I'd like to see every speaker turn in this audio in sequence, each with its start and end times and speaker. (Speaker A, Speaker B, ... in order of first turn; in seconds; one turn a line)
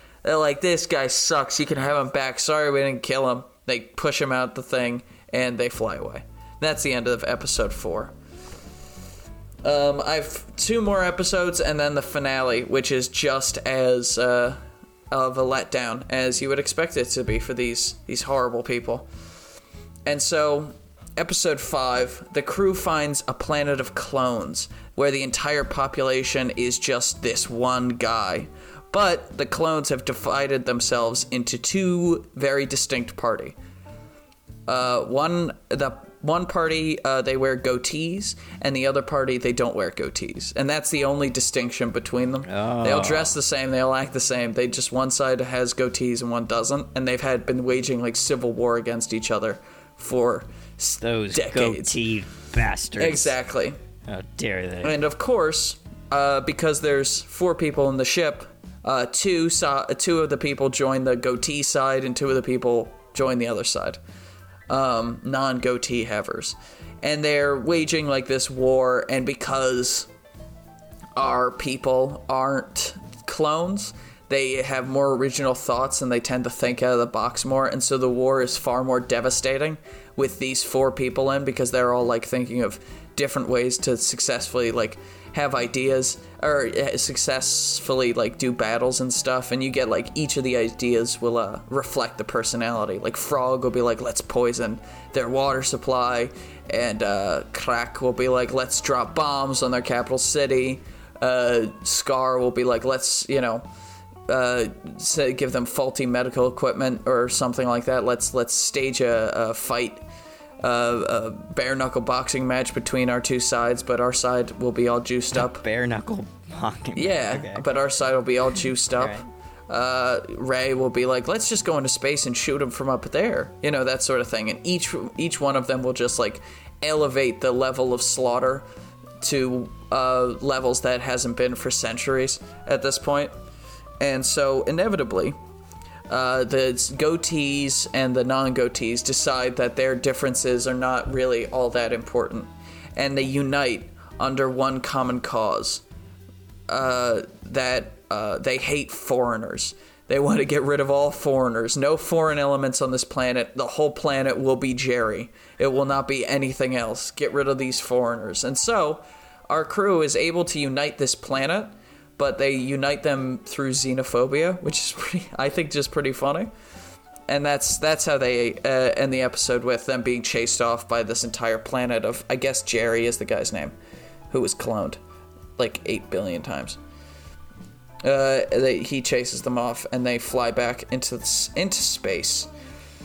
Speaker A: 0.2-8.1
Speaker A: 9.6-19.1
Speaker A: 20.1-33.5
Speaker A: 34.7-52.0
Speaker B: 42.5-43.4
Speaker B: 51.0-53.3
Speaker A: 53.0-53.8
Speaker B: 54.0-54.9
Speaker A: 54.8-64.0
Speaker A: 64.7-70.1
Speaker A: 71.2-103.7
Speaker A: 104.3-110.0
Speaker A: 110.6-115.6
Speaker B: 115.3-117.6
Speaker A: 117.0-128.7
Speaker B: 119.0-119.2
Speaker A: 129.2-133.3
Speaker A: 134.0-135.3
Speaker A: 136.1-145.8
Speaker A: 146.7-166.5
Speaker A: 167.3-173.7
Speaker A: 174.3-175.0
Speaker A: 175.6-176.8
Speaker A: 178.0-182.5